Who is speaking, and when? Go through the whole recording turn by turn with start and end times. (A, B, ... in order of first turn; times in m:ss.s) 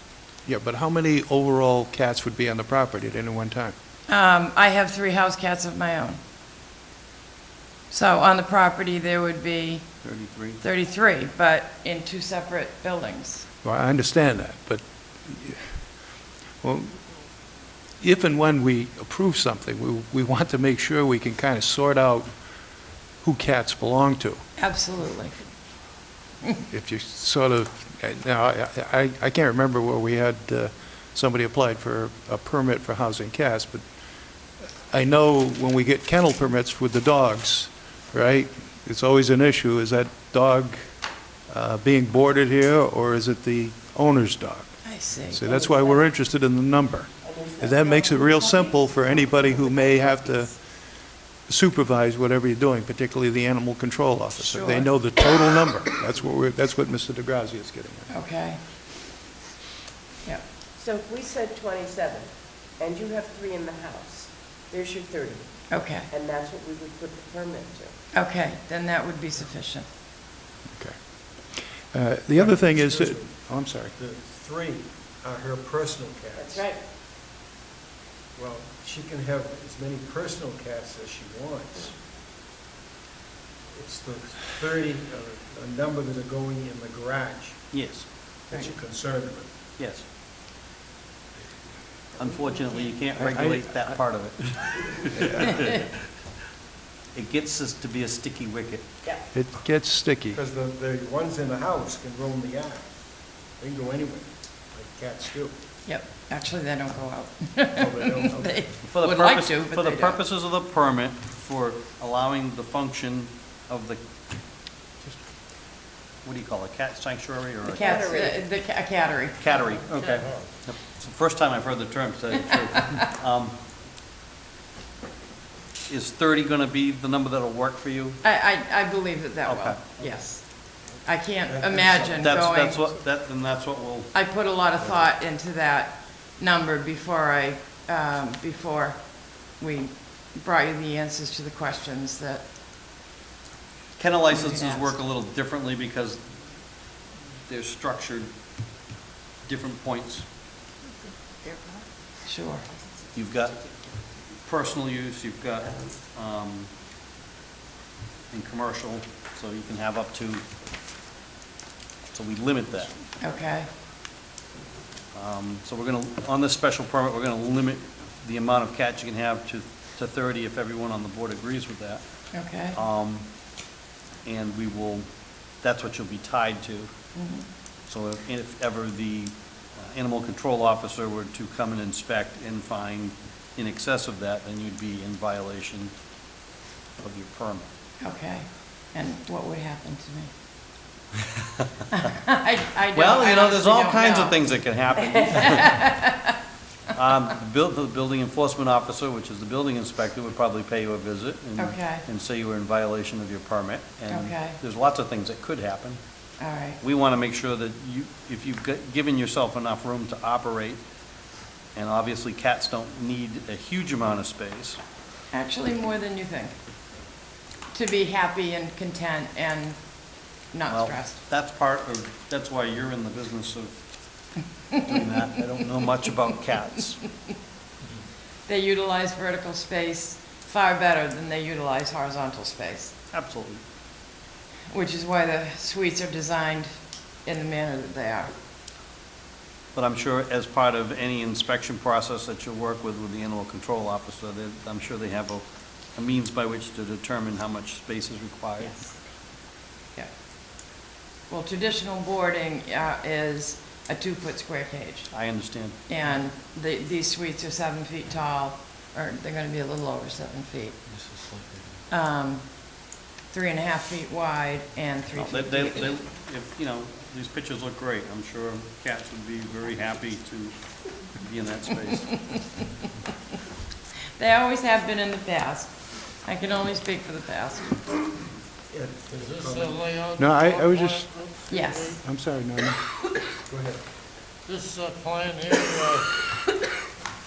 0:00.5-0:03.7 A
0:04.1-0:06.2 B
0:07.9-0:10.0 B
0:10.0-0:10.6 C
0:10.6-0:13.5 B
0:13.6-0:15.8 A
0:16.6-0:17.1 A
0:18.0-0:22.3 A
0:23.2-0:24.4 A
0:24.6-0:25.3 B
0:26.7-0:33.8 A
0:34.9-0:40.8 A
0:41.5-0:50.6 A
0:44.8-0:45.4 B
0:45.5-0:46.1 D
0:47.2-0:50.5 D
0:51.5-0:58.1 A
0:54.6-0:54.8 B
0:58.1-0:58.6 B
1:00.8-1:07.9 D
1:05.7-1:06.1 B
1:08.1-1:09.9 B
1:10.7-1:11.0 A
1:11.5-1:13.9 A
1:12.3-1:16.7 E
1:16.3-1:16.8 D
1:18.3-1:21.9 E
1:23.7-1:27.6 E
1:27.7-1:28.1 C
1:28.5-1:29.5 E
1:29.8-1:30.0 C
1:32.2-1:35.9 C
1:33.2-1:34.0 A
1:35.2-1:35.7 A
1:37.1-1:39.0 C
1:39.3-1:40.4 A
1:40.3-1:42.9 E
1:43.6-1:45.6 E
1:45.8-1:50.2 B
1:47.7-1:48.7 E
1:48.8-1:54.0 C
1:56.2-1:58.2 C
1:57.6-1:59.5 B
1:57.7-1:58.4 D
1:59.4-2:03.6 C
1:59.6-2:00.5 F
2:05.9-2:08.2 C
2:08.2-2:12.8 B
2:09.4-2:09.8 C
2:11.4-2:12.4 E
2:12.2-2:14.1 C
2:14.1-2:22.4 B
2:24.0-2:26.4 C
2:24.3-2:25.0 B
2:27.4-2:28.3 C
2:29.4-2:30.2 C
2:32.2-2:32.6 B
2:33.1-2:33.7 C
2:34.4-2:36.7 C
2:38.3-2:40.4 C
2:42.1-2:42.9 C
2:43.2-2:43.7 B
2:45.1-2:52.0 C
2:52.3-2:52.8 B
2:52.7-2:53.3 C
2:54.2-2:55.1 C
2:55.6-2:56.9 C
2:57.1-2:57.4 B
2:57.9-3:05.9 C
3:07.0-3:07.7 C
3:08.0-3:10.3 B
3:11.9-3:14.4 B
3:12.9-3:15.9 C
3:15.2-3:16.4 B
3:16.9-3:26.0 C
3:21.6-3:22.0 B
3:24.1-3:24.6 B
3:26.4-3:26.8 B
3:26.8-3:30.8 C
3:31.8-3:34.8 C
3:35.3-3:36.5 B
3:37.7-3:39.8 B
3:40.5-3:41.2 B
3:40.7-3:43.8 C
3:44.7-3:47.0 C
3:48.5-3:52.9 B
3:53.1-3:53.6 C
3:54.7-3:56.7 B
3:57.2-3:58.3 B
3:59.8-4:08.9 C
4:11.3-4:15.1 B
4:15.1-4:15.8 C
4:15.9-4:20.8 B
4:20.9-4:21.7 C
4:21.9-4:25.9 B
4:25.1-4:30.6 C
4:31.1-4:32.3 C
4:32.2-4:32.6 B
4:34.2-4:37.8 B
4:38.7-4:39.9 E
4:39.1-4:42.0 F
4:40.1-4:41.1 A
4:41.5-4:42.0 B
4:42.0-4:42.8 A
4:43.5-4:43.8 E
4:44.5-4:46.1 F